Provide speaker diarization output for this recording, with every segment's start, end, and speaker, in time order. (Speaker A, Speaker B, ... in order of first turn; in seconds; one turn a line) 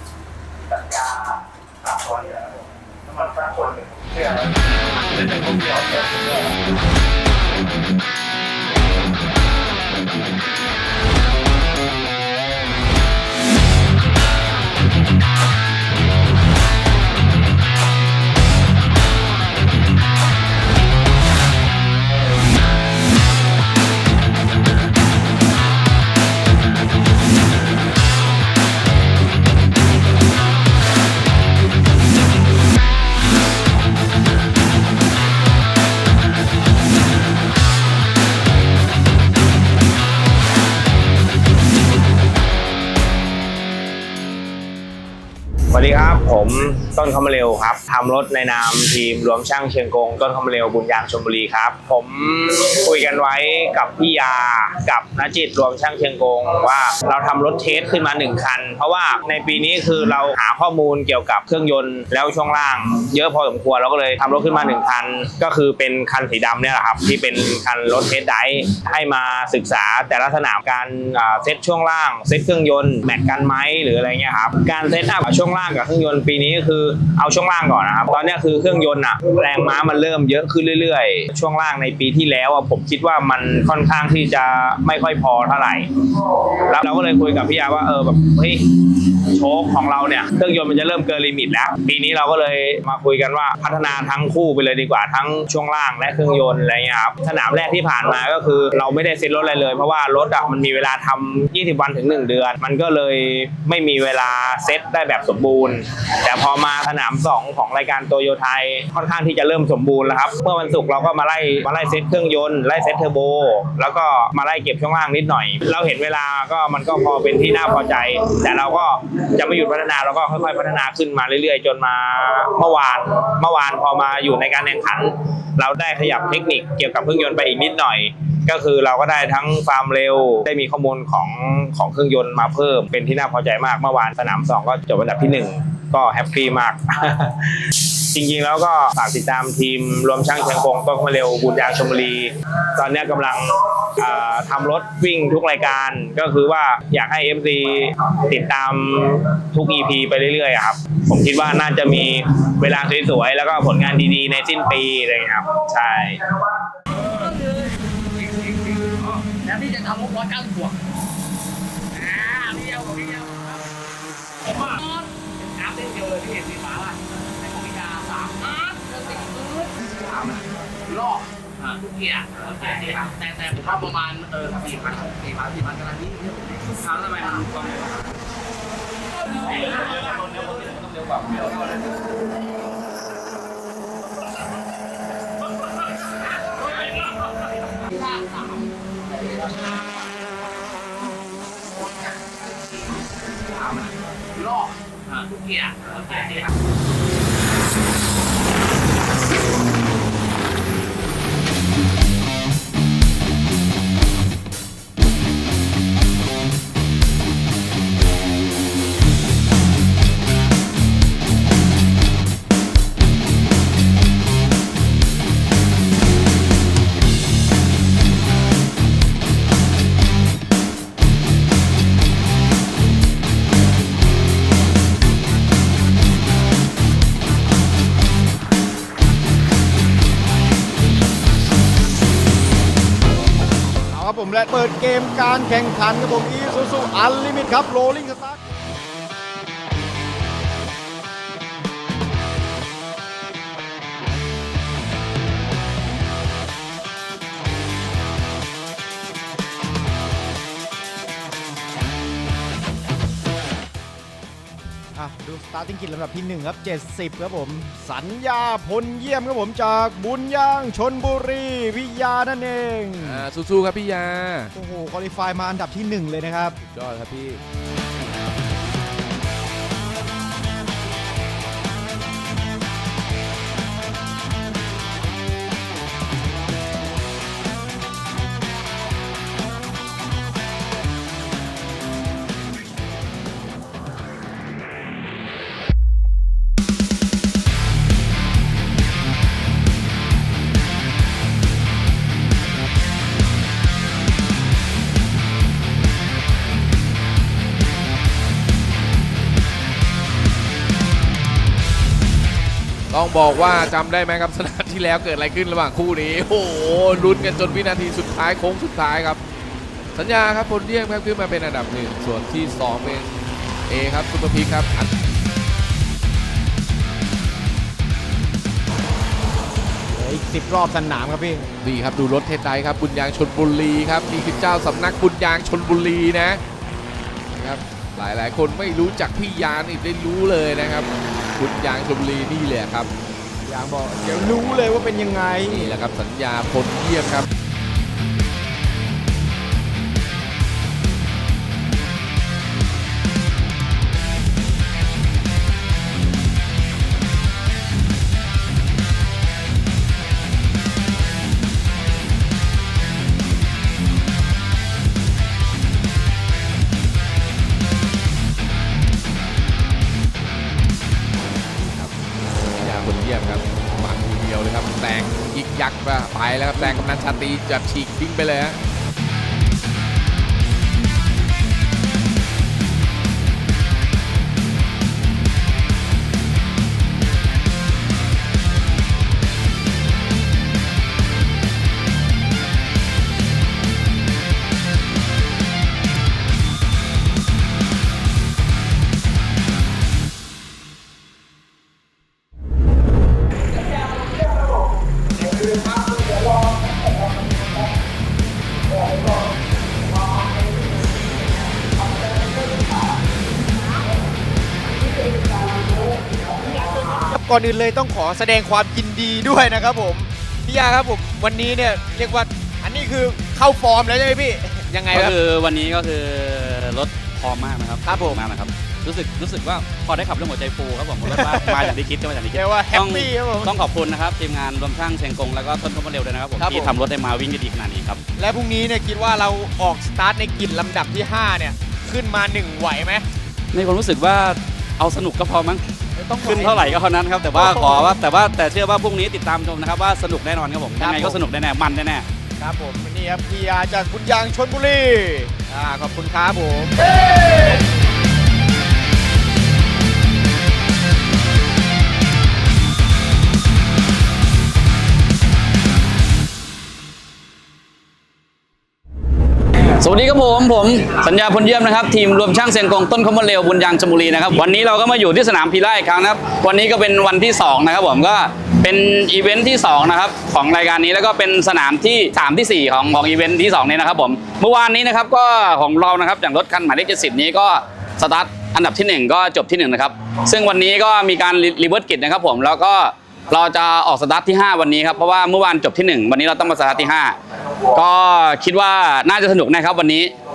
Speaker A: 45.7-156.6
Speaker B: 157.1-157.7
Speaker B: 158.2-160.8
Speaker B: 162.0-163.4
Speaker B: 164.7-177.2
Speaker C: 177.0-177.7
Speaker C: 180.1-181.6
Speaker B: 188.0-188.4
Speaker B: 194.3-196.4
Speaker D: 233.9-238.4
Speaker D: 254.9-263.2
Speaker E: 263.0-264.5
Speaker D: 264.5-266.6
Speaker E: 266.6-267.4
Speaker E: 302.9-309.2
Speaker E: 309.9-314.9
Speaker D: 319.9-321.5
Speaker E: 321.6-326.4
Speaker E: 327.3-332.9
Speaker D: 333.4-335.7
Speaker E: 335.5-337.3
Speaker E: 361.6-368.6
Speaker D: 406.8-415.1
Speaker C: 414.9-428.0
Speaker D: 417.8-418.2
Speaker D: 421.0-421.7
Speaker D: 422.3-423.5
Speaker D: 426.4-426.7
Speaker D: 428.2-433.0
Speaker C: 433.5-435.6
Speaker D: 435.9-436.8
Speaker C: 436.2-442.1
Speaker D: 437.3-438.0
Speaker D: 440.8-441.2
Speaker D: 442.4-446.8
Speaker C: 459.8-487.2
Speaker C: 487.7-490.1